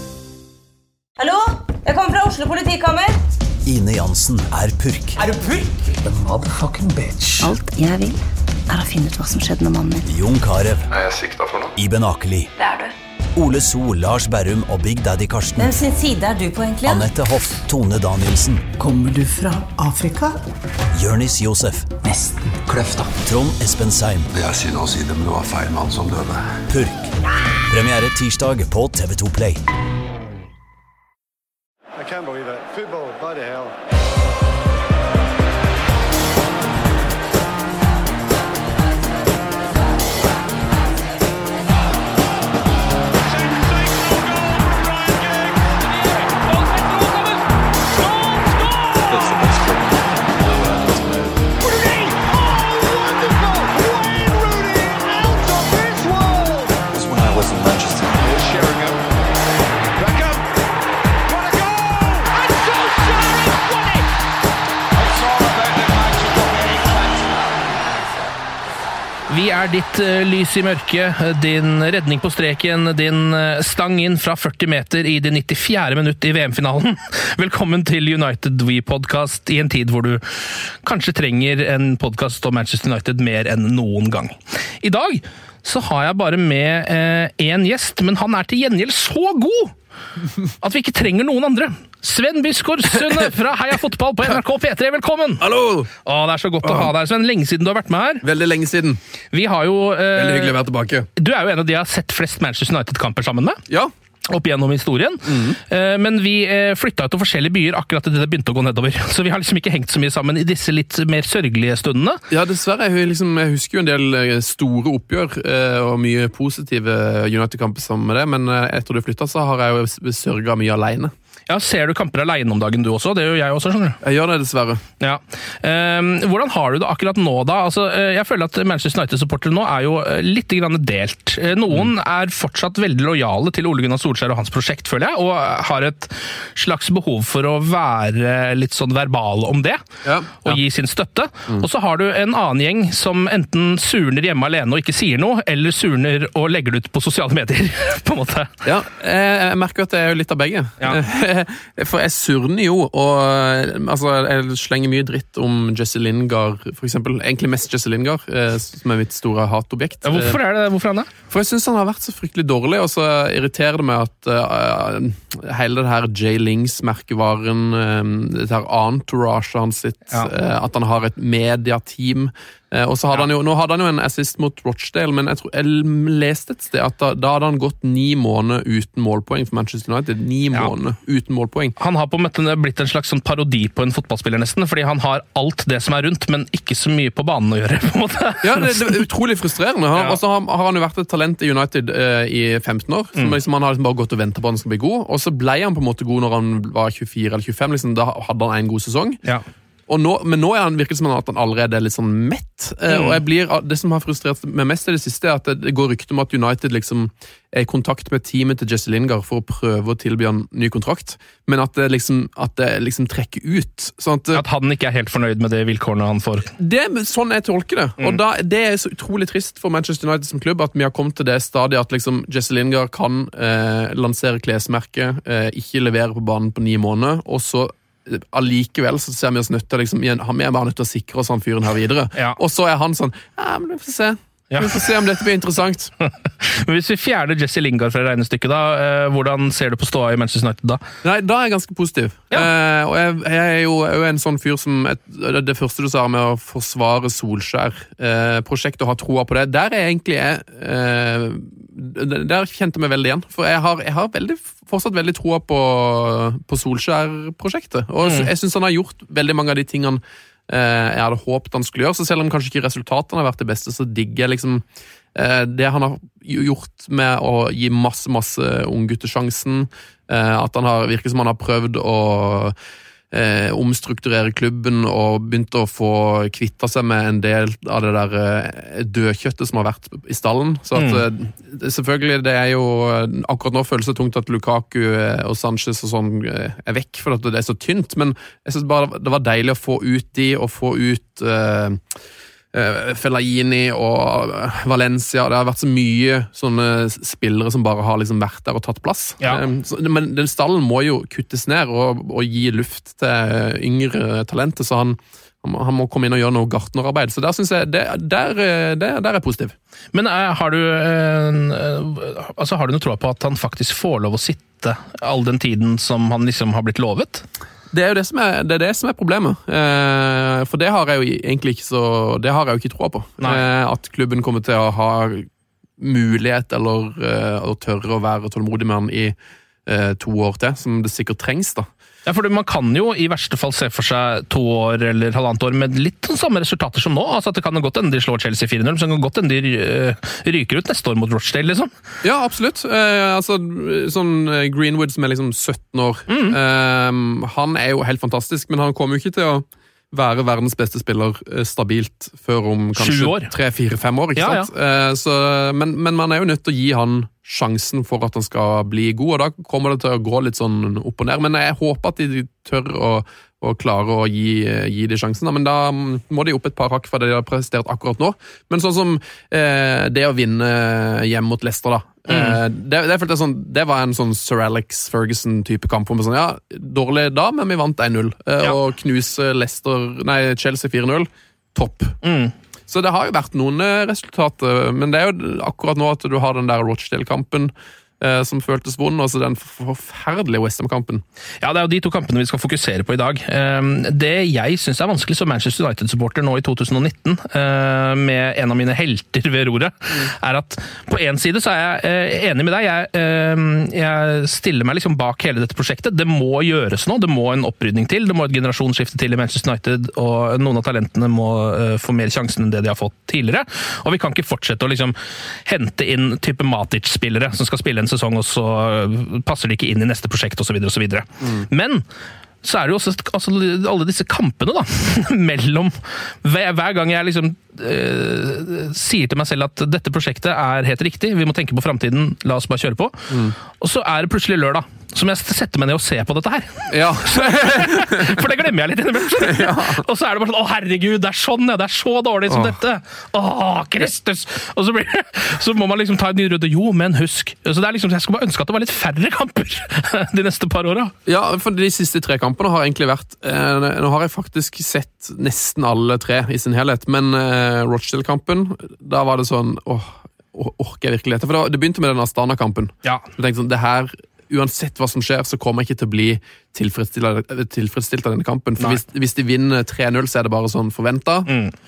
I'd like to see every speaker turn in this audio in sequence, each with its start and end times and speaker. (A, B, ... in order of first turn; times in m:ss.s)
0:01.2-0:03.1 A
0:03.6-0:05.2 B
0:05.3-0:07.5 C
0:07.4-0:10.0 D
0:10.0-0:10.8 B
0:10.9-0:11.7 E
0:11.8-0:12.5 B
0:13.4-0:15.7 B
0:15.6-0:17.0 A
0:16.8-0:18.8 B
0:18.8-0:20.4 C
0:20.9-0:22.0 B
0:22.0-0:23.2 C
0:23.2-0:24.3 B
0:24.3-0:26.4 E
0:26.7-0:27.1 B
0:27.7-0:29.6 B
0:32.0-0:33.7 F
0:46.5-0:47.3 G
0:49.0-0:51.4 E
0:52.9-0:56.7 F
0:56.9-0:59.0 E
1:00.0-1:00.4 E
1:05.1-1:06.3 E
1:09.3-1:29.7 G
1:30.6-1:35.4 G
1:35.4-1:35.9 H
1:36.0-1:38.2 G
1:36.6-1:36.9 H
1:38.2-1:39.0 H
1:39.3-1:40.6 G
1:40.1-1:41.1 H
1:41.2-1:43.6 G
1:44.3-1:52.2 G
1:45.2-1:45.6 H
1:52.3-2:01.1 H
2:01.5-2:04.0 G
2:04.0-2:04.8 H
2:05.0-2:19.8 G
2:20.0-2:20.6 H
2:20.4-2:28.5 G
2:28.6-2:40.4 H
2:40.0-2:41.1 G
2:41.3-3:01.7 H
3:01.8-3:09.0 G
3:08.4-3:19.2 H
3:19.9-3:34.4 H
3:22.9-3:23.2 G
3:34.3-3:36.5 G
3:36.6-3:55.9 H
3:54.5-3:54.9 G
3:56.4-4:00.8 G
4:01.0-4:24.6 H
4:18.0-4:18.3 G
4:25.1-4:32.5 H
4:33.1-4:51.8 H
4:40.7-4:41.0 G
4:52.5-5:09.5 H
5:09.9-5:17.2 G
5:17.7-5:25.3 H
5:25.8-5:29.1 H
5:29.6-5:31.7 H
5:32.0-5:41.7 G
5:42.0-6:22.0 H
5:46.1-5:46.4 G
5:52.8-5:53.3 G
5:54.2-5:54.5 G
6:12.1-6:12.4 G
6:22.0-6:22.3 G
6:22.7-6:31.0 H
6:31.4-7:01.8 G
7:01.2-7:01.5 H
7:02.4-7:30.9 G
7:13.1-7:13.4 H
7:16.7-7:18.2 H
7:19.2-7:19.8 H
7:31.0-7:51.3 H
7:51.3-7:51.5 G